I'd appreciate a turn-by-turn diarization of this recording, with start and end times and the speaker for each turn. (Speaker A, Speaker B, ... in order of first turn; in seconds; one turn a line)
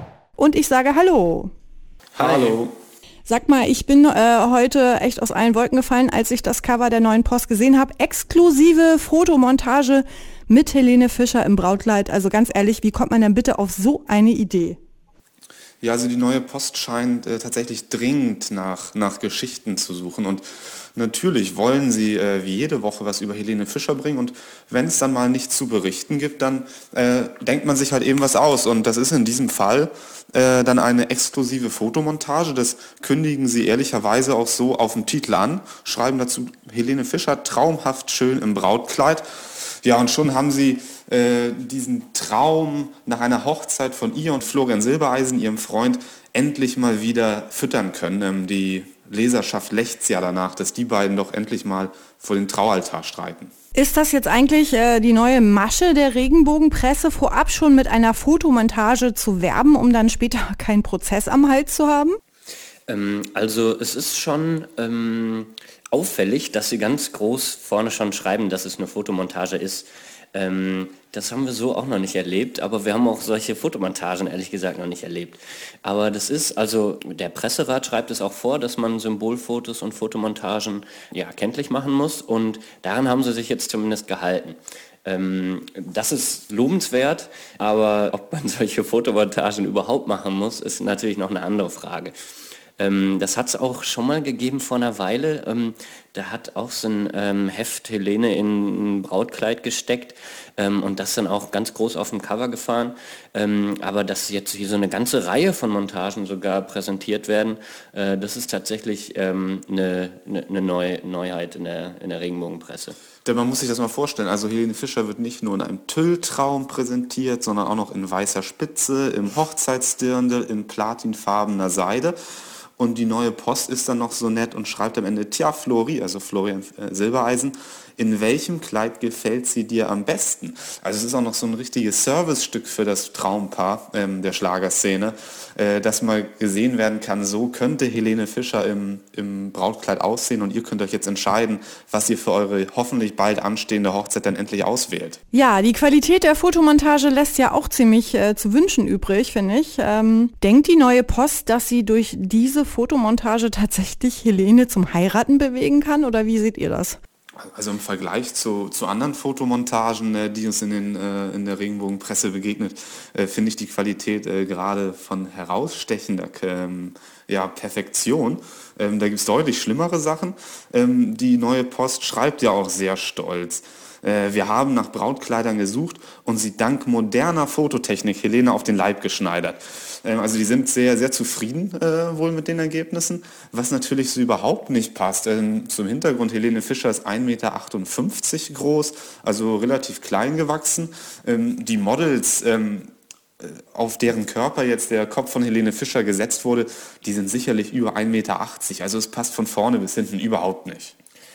Speaker A: 0.4-1.5
Speaker B: 2.1-2.7
Speaker C: 2.2-2.6
Speaker A: 3.2-14.8
Speaker B: 15.8-53.5
Speaker A: 53.7-62.2
Speaker C: 62.9-92.1
Speaker C: 92.8-113.0
Speaker B: 113.2-122.2
Speaker B: 122.8-145.2
Speaker A: 145.3-157.0
Speaker B: 157.4-192.9
Speaker B: 193.4-200.9